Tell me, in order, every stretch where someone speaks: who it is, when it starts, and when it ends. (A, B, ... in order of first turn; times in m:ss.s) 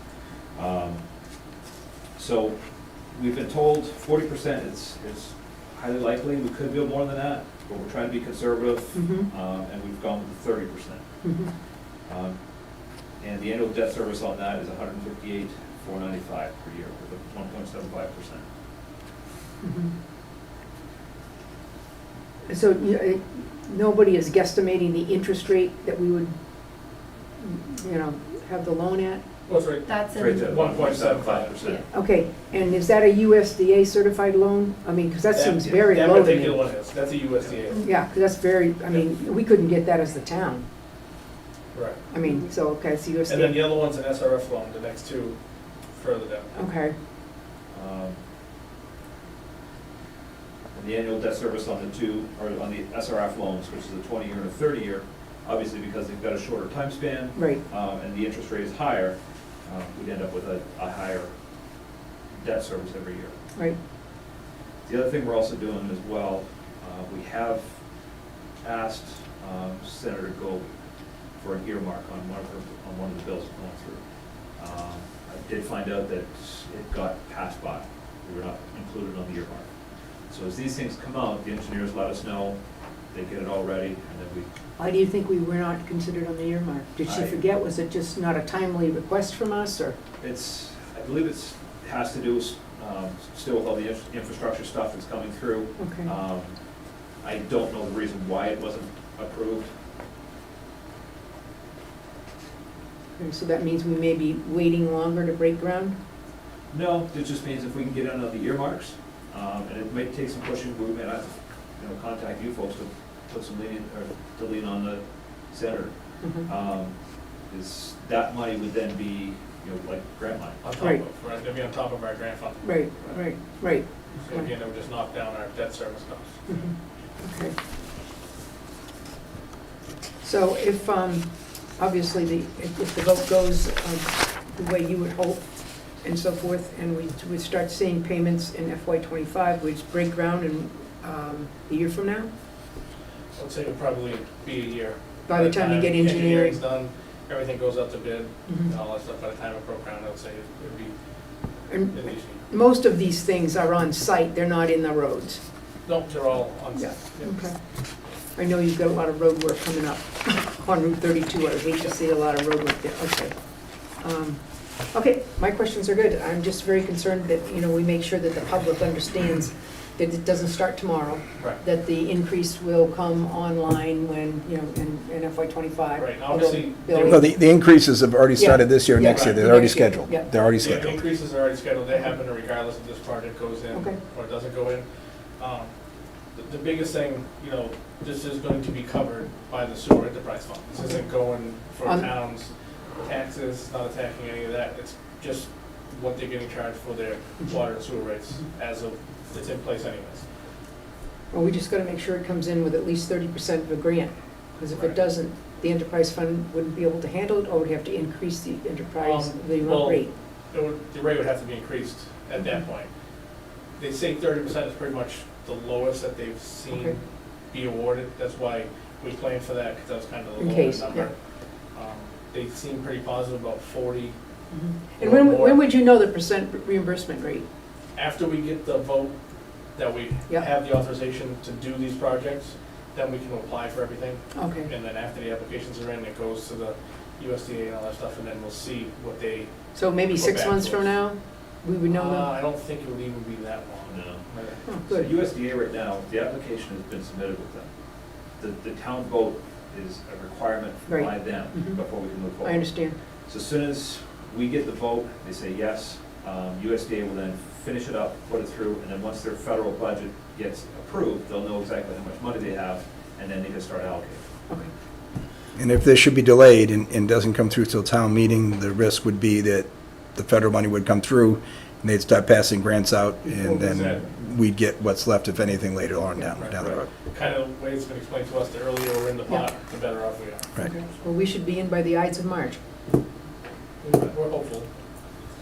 0:00.5-0:01.0 A
0:02.1-0:02.6 A
0:03.1-0:11.0 A
0:08.9-0:09.3 B
0:11.2-0:11.5 B
0:12.0-0:12.4 A
0:13.2-0:18.4 A
0:19.6-0:19.9 B
0:22.5-0:26.3 B
0:27.4-0:29.2 B
0:29.5-0:31.6 C
0:30.1-0:31.8 A
0:31.9-0:36.6 B
0:35.3-0:37.8 C
0:37.8-0:40.6 B
0:41.7-0:42.0 C
0:42.1-0:43.6 B
0:43.3-0:45.4 C
0:45.9-0:46.5 C
0:46.5-0:46.9 B
0:47.7-0:48.2 A
0:50.7-1:01.3 A
0:57.3-0:57.6 B
1:02.4-1:03.3 A
1:04.8-1:07.7 A
1:08.6-1:10.7 A
1:11.4-1:14.0 A
1:14.6-1:19.7 A
1:20.3-1:22.6 A
1:23.1-1:24.5 A
1:24.8-1:30.0 B
1:27.0-1:27.4 A
1:30.2-1:36.5 A
1:35.8-1:36.1 B
1:37.2-1:39.7 A
1:43.2-1:45.9 B
1:46.7-1:56.9 A
1:56.2-1:56.5 B
1:57.5-2:00.8 A
2:00.6-2:03.2 C
2:02.6-2:04.5 B
2:04.2-2:06.6 C
2:06.5-2:07.5 B
2:10.2-2:11.2 B
2:11.8-2:15.4 B
2:16.0-2:22.3 B
2:23.3-2:30.9 C
2:25.3-2:26.6 B
2:31.7-2:35.4 B
2:31.9-2:32.4 C
2:35.8-2:37.4 C
2:36.7-2:37.6 B
2:38.3-2:43.3 B
2:44.0-2:57.3 B
2:56.0-2:57.2 C
2:56.9-3:01.0 D
2:58.4-3:00.3 B
2:59.1-2:59.4 C
3:00.6-3:04.8 C
3:03.7-3:04.0 B
3:05.4-3:05.7 C
3:06.3-3:20.2 C
3:11.8-3:12.1 B
3:21.3-3:30.1 B
3:24.7-3:25.0 C
3:29.0-3:32.9 C
3:33.8-3:41.1 C
3:40.4-3:41.1 B
3:41.7-3:44.1 C
3:44.5-3:47.4 B
3:45.0-3:45.6 C
3:47.9-3:49.1 C
3:49.7-4:00.9 C
3:54.3-3:54.7 B
3:59.7-4:02.3 B
4:01.9-4:04.6 C
4:03.9-4:04.2 A
4:04.7-4:05.1 B
4:04.9-4:07.7 A
4:08.4-4:12.7 A
4:10.9-4:11.8 B
4:12.4-4:13.0 B
4:13.2-4:24.2 A
4:25.6-4:36.9 D
4:33.4-4:33.6 B
4:33.6-4:34.0 C
4:36.4-4:40.5 C
4:40.6-4:42.6 B
4:43.8-4:44.7 C